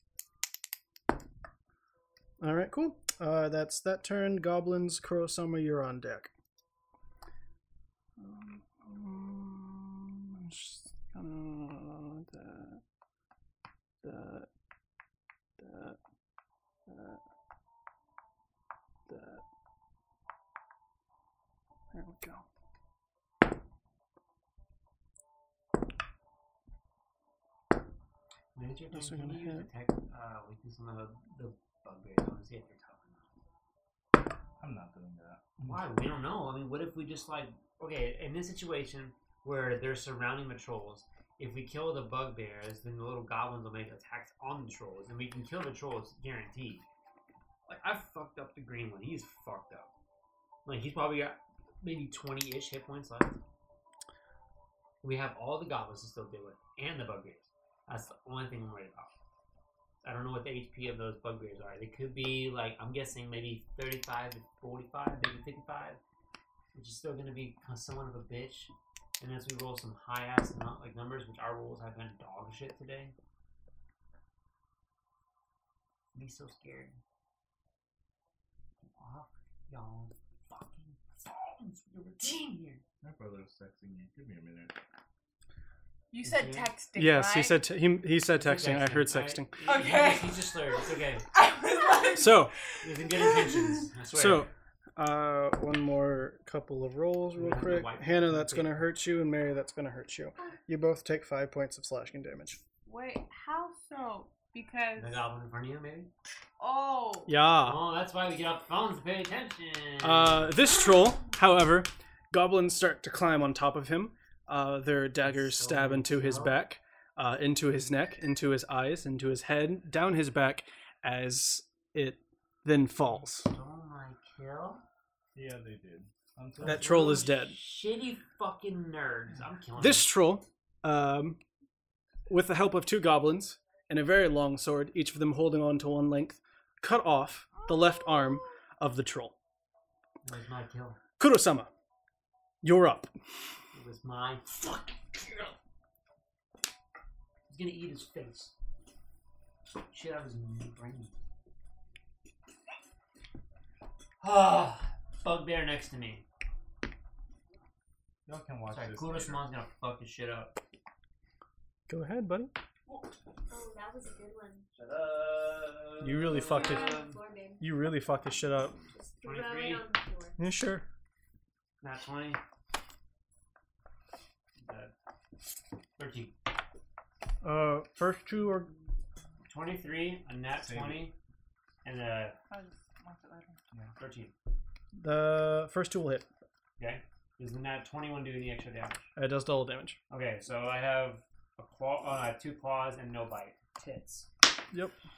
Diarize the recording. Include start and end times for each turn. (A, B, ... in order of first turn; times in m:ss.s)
0:02.4-0:06.3 A
0:08.2-0:12.8 A
0:14.0-0:14.5 A
0:15.6-0:16.0 A
0:16.9-0:17.2 A
0:19.1-0:19.4 A
0:21.9-0:22.4 A
0:28.5-0:33.3 B
0:28.9-0:29.7 A
0:34.6-0:35.7 C
0:35.6-0:46.8 B
0:47.7-0:49.9 B
0:50.6-0:53.4 B
0:55.0-0:59.1 B
1:00.0-1:06.0 B
1:06.7-1:13.1 B
1:16.1-1:17.0 B
1:18.8-1:22.8 B
1:23.0-1:24.8 C
1:26.1-1:27.7 D
1:26.2-1:26.7 B
1:26.9-1:29.5 A
1:28.3-1:31.2 B
1:29.6-1:30.6 D
1:31.3-1:33.8 D
1:32.1-1:32.5 A
1:32.8-1:34.5 B
1:34.1-1:42.6 A
1:37.4-1:38.8 B
1:42.8-1:45.2 D
1:45.0-1:46.1 B
1:46.6-1:47.3 D
1:47.3-1:47.8 A
1:47.6-1:50.7 B
1:50.0-2:03.5 A
1:55.2-1:56.6 B
2:03.1-2:04.8 B
2:05.3-2:07.0 C
2:06.6-2:10.1 B
2:06.6-2:07.6 A
2:09.8-2:11.4 A
2:12.3-2:19.3 A
2:20.2-2:21.0 B
2:21.2-2:21.7 A
2:22.6-2:23.1 A
2:23.7-2:25.5 B
2:27.5-2:28.5 B
2:29.8-2:31.1 B
2:34.2-2:36.2 B
2:38.2-2:39.5 C
2:38.7-2:40.6 B
2:41.9-2:42.5 A
2:43.5-2:44.6 E
2:44.7-2:47.2 B
2:46.0-2:47.0 A
2:46.2-2:47.6 E
2:47.6-2:48.8 A
2:48.9-2:50.4 E
2:49.2-2:49.9 B
2:50.4-2:50.8 A
2:51.8-2:52.4 B
2:54.6-2:54.9 B
2:56.0-2:56.3 B
2:57.4-2:58.7 A
2:59.5-3:01.1 B
3:00.6-3:01.1 C
3:01.8-3:02.4 B
3:02.5-3:03.6 D
3:04.0-3:04.3 B
3:05.0-3:06.3 A
3:06.8-3:09.0 B
3:09.2-3:10.0 A
3:10.1-3:14.3 B